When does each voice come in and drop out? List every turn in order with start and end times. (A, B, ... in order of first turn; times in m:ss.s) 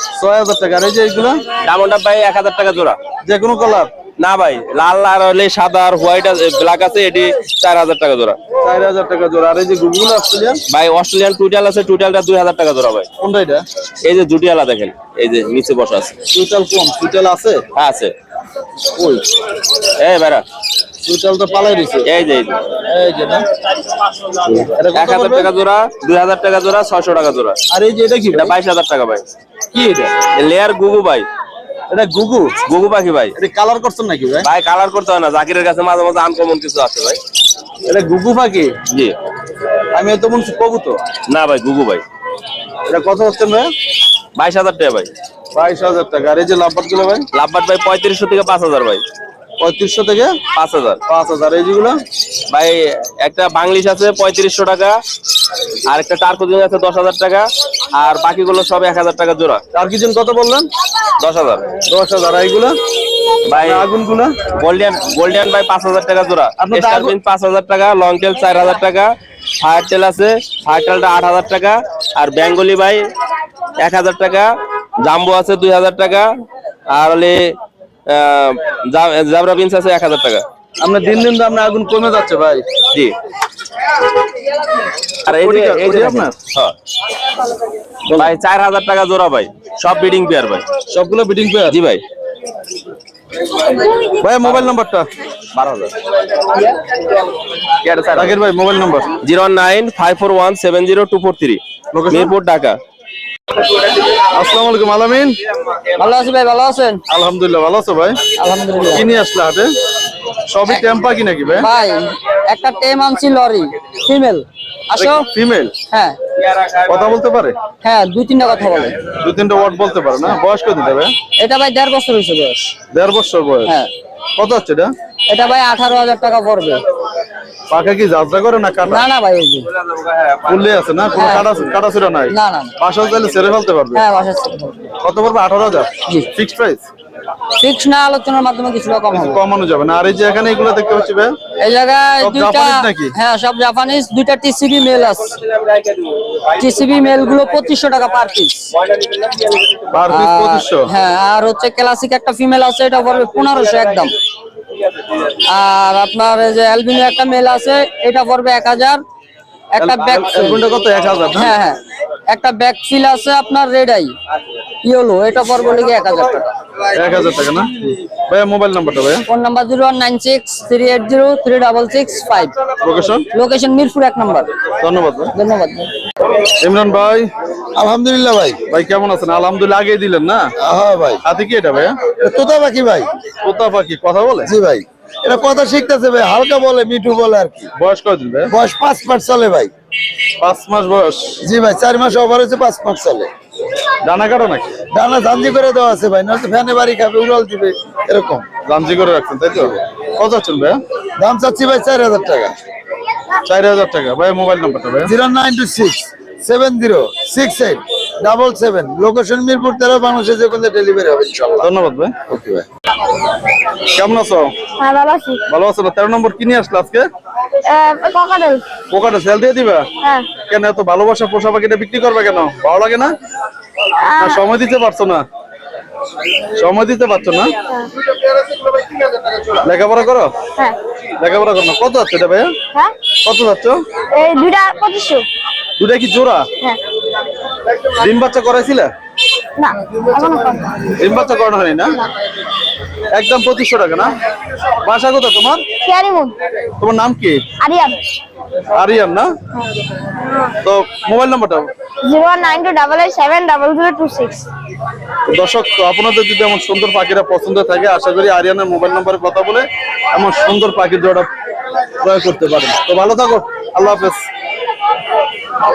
0:00.2-0:01.4 A
0:01.6-0:03.0 B
0:03.2-0:03.9 A
0:04.2-0:08.4 B
0:08.6-0:10.6 A
0:10.7-0:13.1 B
0:13.2-0:13.6 A
0:14.0-0:16.1 B
0:16.3-0:17.6 A
0:17.7-0:18.1 B
0:19.0-0:19.2 A
0:20.0-0:20.4 B
0:21.0-0:22.1 A
0:22.0-0:22.6 B
0:22.8-0:23.4 A
0:24.4-0:27.6 B
0:24.7-0:25.5 A
0:27.7-0:28.5 A
0:28.3-0:29.2 B
0:29.7-0:30.1 A
0:30.3-0:31.3 B
0:31.9-0:32.5 A
0:32.6-0:33.3 B
0:33.4-0:34.4 A
0:34.4-0:37.2 B
0:37.8-0:38.8 A
0:38.9-0:39.1 B
0:39.9-0:41.0 A
0:41.3-0:42.0 B
0:42.9-0:43.7 A
0:44.4-0:45.1 B
0:45.5-0:47.2 A
0:47.3-0:49.0 B
0:49.6-0:50.4 A
0:50.5-0:51.0 B
0:51.1-0:52.0 A
0:52.5-0:55.0 B
0:55.9-0:59.6 B
0:59.7-1:00.7 A
1:01.2-1:01.7 B
1:01.8-1:02.7 A
1:03.5-1:03.9 B
1:03.6-1:04.3 A
1:04.5-1:13.0 B
1:06.6-1:07.2 A
1:13.8-1:14.5 B
1:15.0-1:16.3 B
1:16.9-1:17.5 B
1:18.1-1:20.4 B
1:20.8-1:22.6 A
1:25.2-1:26.7 B
1:25.3-1:26.4 A
1:28.1-1:30.6 B
1:30.9-1:31.8 A
1:31.7-1:32.0 B
1:34.1-1:35.1 A
1:34.4-1:34.7 B
1:35.5-1:35.9 B
1:37.8-1:38.3 B
1:38.2-1:39.1 A
1:39.2-1:42.8 B
1:41.9-1:42.3 A
1:44.3-1:45.4 A
1:46.0-1:47.0 C
1:47.1-1:48.2 A
1:48.4-1:49.1 C
1:48.9-1:49.7 A
1:50.5-1:51.7 A
1:51.6-1:55.2 C
1:55.0-1:55.7 A
1:55.9-1:56.2 C
1:56.8-1:57.6 A
1:57.8-1:59.1 C
1:59.1-2:01.2 A
2:01.3-2:02.7 C
2:02.9-2:03.7 A
2:04.4-2:04.9 A
2:05.3-2:06.8 C
2:07.7-2:09.0 A
2:08.8-2:09.7 C
2:10.4-2:14.0 A
2:11.1-2:11.6 C
2:12.3-2:12.7 C
2:13.9-2:14.8 C
2:15.0-2:16.8 A
2:17.6-2:19.4 C
2:19.1-2:21.3 A
2:21.6-2:25.4 C
2:22.2-2:23.1 A
2:26.5-2:28.7 C
2:29.9-2:30.9 A
2:30.1-2:34.1 C
2:35.3-2:39.0 C
2:39.7-2:40.6 C
2:39.8-2:41.5 A
2:41.3-2:44.2 C
2:44.8-2:46.5 C
2:46.9-2:49.2 A
2:49.3-2:52.5 C
2:52.8-2:53.2 A
2:53.3-2:54.5 C
2:54.8-2:55.3 A
2:55.3-2:55.9 C
2:56.6-2:57.3 A
2:57.8-2:58.6 D
2:58.6-3:00.5 A
3:00.6-3:01.2 D
3:01.2-3:02.0 A
3:02.1-3:03.1 D
3:03.4-3:04.5 A
3:04.4-3:07.7 D
3:07.8-3:08.5 A
3:08.5-3:09.7 D
3:10.4-3:11.4 A
3:11.4-3:13.3 D
3:14.0-3:14.8 A
3:14.9-3:18.4 D
3:18.6-3:20.8 A
3:21.2-3:22.5 D
3:23.4-3:25.1 A
3:25.0-3:31.7 D
3:31.6-3:32.3 A
3:32.3-3:32.6 D
3:33.9-3:34.5 A
3:34.8-3:35.4 E
3:35.5-3:37.1 A
3:37.6-3:38.6 E
3:38.9-3:43.1 A
3:40.0-3:40.3 E
3:44.0-3:44.4 E
3:44.1-3:45.2 A
3:46.6-3:47.6 A
3:49.5-3:50.3 A
3:51.2-3:52.5 A
3:53.2-3:53.8 A
3:54.1-3:55.2 E
3:55.8-3:56.5 A
3:57.8-3:58.9 A
3:59.6-4:00.9 E
4:01.0-4:02.0 A
4:03.1-4:04.2 A
4:04.8-4:05.6 A
4:05.8-4:06.4 E
4:06.8-4:07.4 A
4:07.6-4:08.0 E
4:08.7-4:09.3 A
4:10.2-4:10.4 E
4:10.6-4:11.7 A
4:12.0-4:14.5 E
4:15.3-4:21.3 A
4:22.0-4:24.2 A